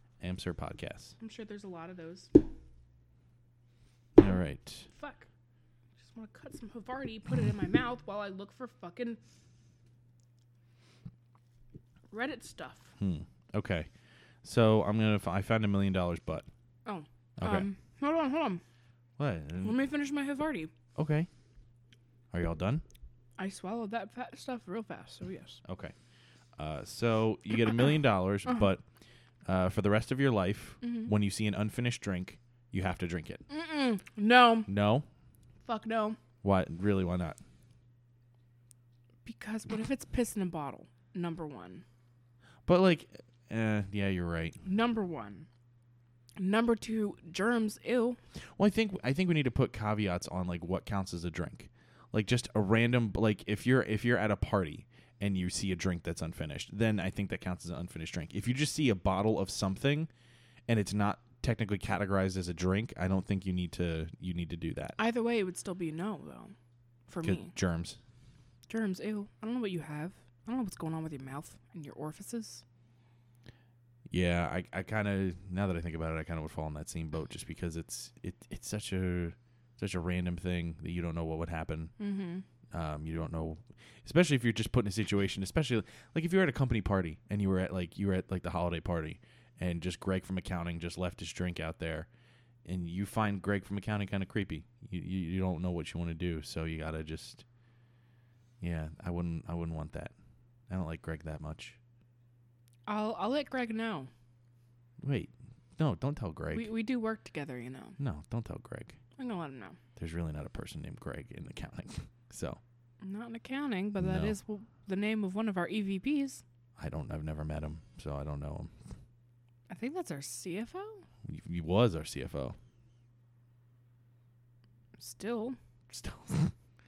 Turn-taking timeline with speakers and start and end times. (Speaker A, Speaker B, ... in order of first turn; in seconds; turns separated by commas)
Speaker A: 0.2-1.1, Speaker B: 1.2-2.3, Speaker A: 4.2-4.9, Speaker B: 4.9-5.3, Speaker B: 6.0-9.2, Speaker B: 12.1-12.9, Speaker A: 13.0-13.9, Speaker A: 14.4-16.5, Speaker B: 16.9-18.6, Speaker A: 17.4-17.7, Speaker A: 19.2-19.8, Speaker B: 19.6-20.7, Speaker A: 20.9-21.3, Speaker A: 22.3-22.8, Speaker B: 23.4-25.6, Speaker A: 25.6-25.9, Speaker A: 26.6-28.8, Speaker A: 29.5-33.5, Speaker B: 30.8-31.1, Speaker B: 33.5-34.7, Speaker A: 34.7-35.1, Speaker B: 35.6-36.2, Speaker A: 36.4-37.4, Speaker B: 39.2-41.8, Speaker A: 42.7-44.6, Speaker B: 44.6-45.5, Speaker B: 46.4-48.2, Speaker A: 48.6-60.1, Speaker A: 60.7-65.0, Speaker B: 65.0-66.5, Speaker B: 67.1-67.5, Speaker A: 67.2-68.0, Speaker B: 68.7-72.6, Speaker A: 74.1-82.0, Speaker B: 82.0-82.5, Speaker A: 82.7-92.1, Speaker A: 92.7-97.4, Speaker A: 98.6-100.1, Speaker A: 100.7-101.8, Speaker B: 102.9-104.1, Speaker A: 105.0-106.8, Speaker B: 106.5-108.0, Speaker A: 108.0-109.0, Speaker B: 109.2-109.8, Speaker A: 110.0-112.6, Speaker B: 113.0-116.4, Speaker A: 114.0-114.4, Speaker A: 116.8-118.7, Speaker B: 119.7-121.0, Speaker A: 121.2-122.6, Speaker B: 125.0-125.6, Speaker A: 125.9-126.5